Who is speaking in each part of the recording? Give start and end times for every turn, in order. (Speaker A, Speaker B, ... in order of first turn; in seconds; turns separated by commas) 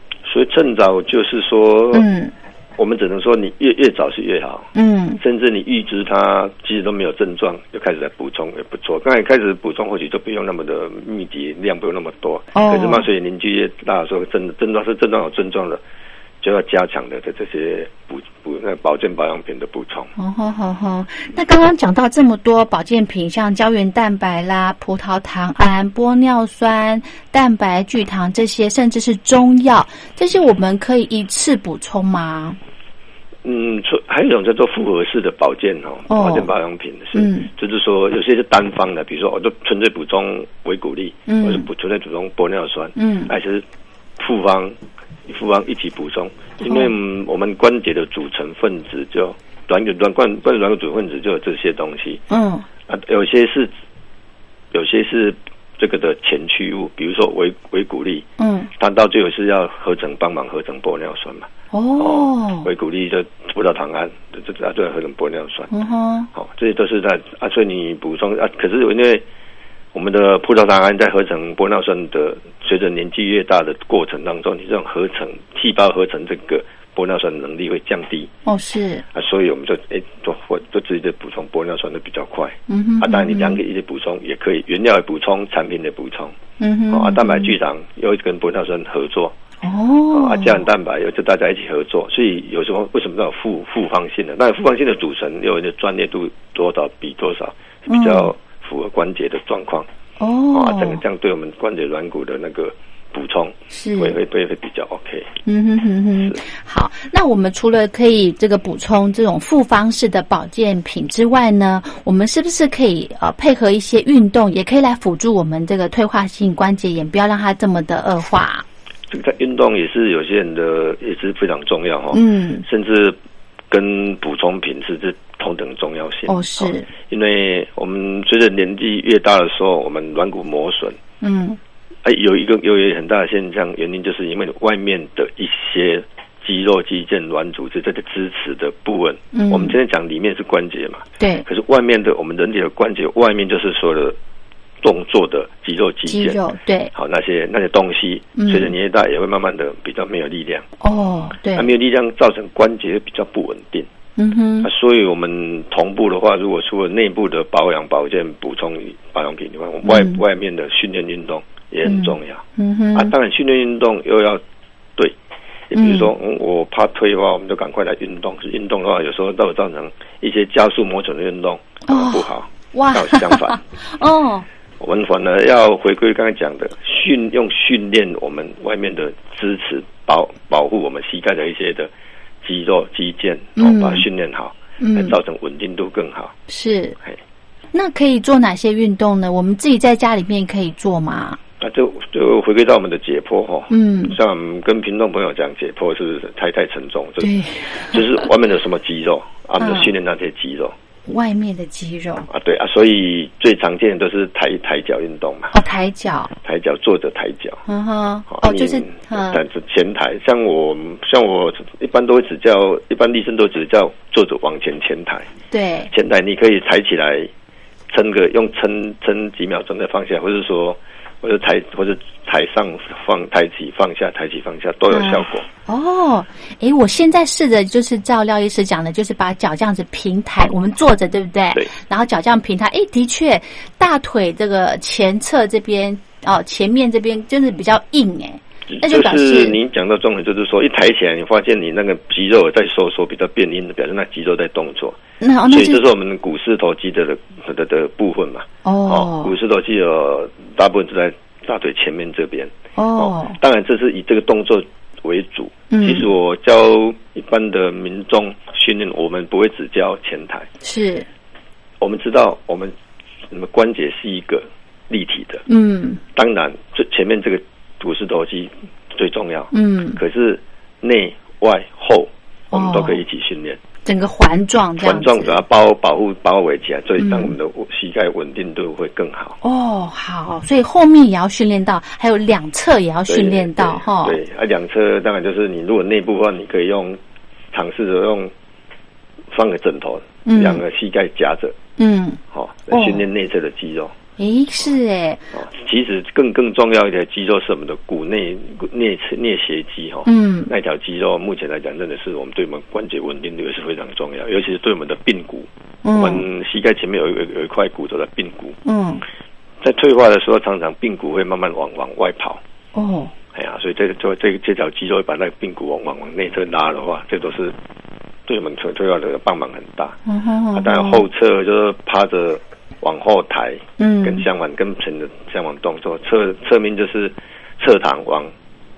Speaker A: 0.2-2.1, Speaker B: 1.9-2.3, Speaker A: 2.8-15.8, Speaker B: 4.7-5.2, Speaker B: 12.5-13.1, Speaker A: 16.4-20.1, Speaker B: 20.2-32.6, Speaker A: 33.4-43.7, Speaker B: 36.1-36.5, Speaker B: 37.1-37.5, Speaker B: 41.3-41.7, Speaker B: 43.0-43.3, Speaker A: 44.2-52.2, Speaker B: 46.6-46.9, Speaker B: 52.3-52.7, Speaker A: 52.9-53.7, Speaker A: 54.7-58.3, Speaker B: 58.4-58.7, Speaker A: 58.8-65.7, Speaker B: 61.7-62.7, Speaker B: 65.7-66.3, Speaker A: 66.3-69.2, Speaker A: 69.9-78.3, Speaker B: 78.5-79.0, Speaker A: 79.1-86.3, Speaker B: 82.7-83.6, Speaker B: 86.6-87.6, Speaker A: 86.9-89.3, Speaker B: 89.6-90.6, Speaker A: 90.1-99.9, Speaker B: 97.9-98.3, Speaker B: 100.2-101.0, Speaker A: 100.5-105.3, Speaker B: 103.7-104.2, Speaker B: 105.5-118.7, Speaker A: 119.1-123.2, Speaker B: 122.1-122.7, Speaker A: 123.7-131.0, Speaker B: 126.3-126.9, Speaker B: 131.2-131.6, Speaker A: 132.0-144.2, Speaker B: 139.3-139.8, Speaker B: 141.2-141.4, Speaker A: 144.8-146.4, Speaker B: 146.1-146.9, Speaker A: 146.9-150.7, Speaker B: 148.4-148.7, Speaker B: 150.8-151.7, Speaker A: 151.5-153.9, Speaker B: 154.2-154.7, Speaker A: 154.6-164.4, Speaker B: 159.8-160.2, Speaker B: 161.8-163.1, Speaker A: 165.7-173.6, Speaker B: 165.8-166.1, Speaker B: 171.9-174.5, Speaker A: 174.8-181.9, Speaker A: 182.4-186.4, Speaker B: 183.6-184.1, Speaker B: 184.8-185.2, Speaker B: 186.5-187.0, Speaker B: 187.7-191.4, Speaker A: 191.6-200.8, Speaker B: 193.7-194.2, Speaker B: 197.2-198.3, Speaker B: 199.6-199.9, Speaker B: 201.1-202.3, Speaker A: 202.3-205.5, Speaker B: 205.5-206.3, Speaker A: 206.4-207.6, Speaker B: 207.7-209.4, Speaker A: 208.3-215.3, Speaker B: 215.5-215.9, Speaker A: 215.9-217.3, Speaker A: 217.9-225.5, Speaker B: 224.9-239.6, Speaker A: 238.7-245.0, Speaker B: 245.2-245.8, Speaker A: 245.5-260.5, Speaker B: 248.7-249.3, Speaker B: 252.8-253.4, Speaker B: 255.7-256.1, Speaker B: 260.6-261.1, Speaker A: 261.8-262.7, Speaker A: 263.3-265.4, Speaker B: 265.5-266.0, Speaker A: 266.1-273.6, Speaker B: 269.5-270.0, Speaker B: 272.5-273.0, Speaker B: 273.9-275.4, Speaker A: 274.8-279.4, Speaker B: 277.0-277.3, Speaker B: 279.4-284.2, Speaker A: 283.1-287.0, Speaker A: 287.5-288.3, Speaker A: 289.3-291.6, Speaker B: 290.3-290.6, Speaker B: 291.8-292.2, Speaker A: 292.3-293.9, Speaker B: 292.7-293.0, Speaker B: 294.2-295.2, Speaker A: 295.3-308.6, Speaker B: 300.1-300.5, Speaker B: 305.8-306.2, Speaker B: 308.6-309.0, Speaker A: 309.6-312.4, Speaker B: 312.8-313.1, Speaker A: 313.3-317.6, Speaker A: 318.3-320.0, Speaker B: 320.1-321.1, Speaker A: 320.5-328.3, Speaker B: 323.8-324.3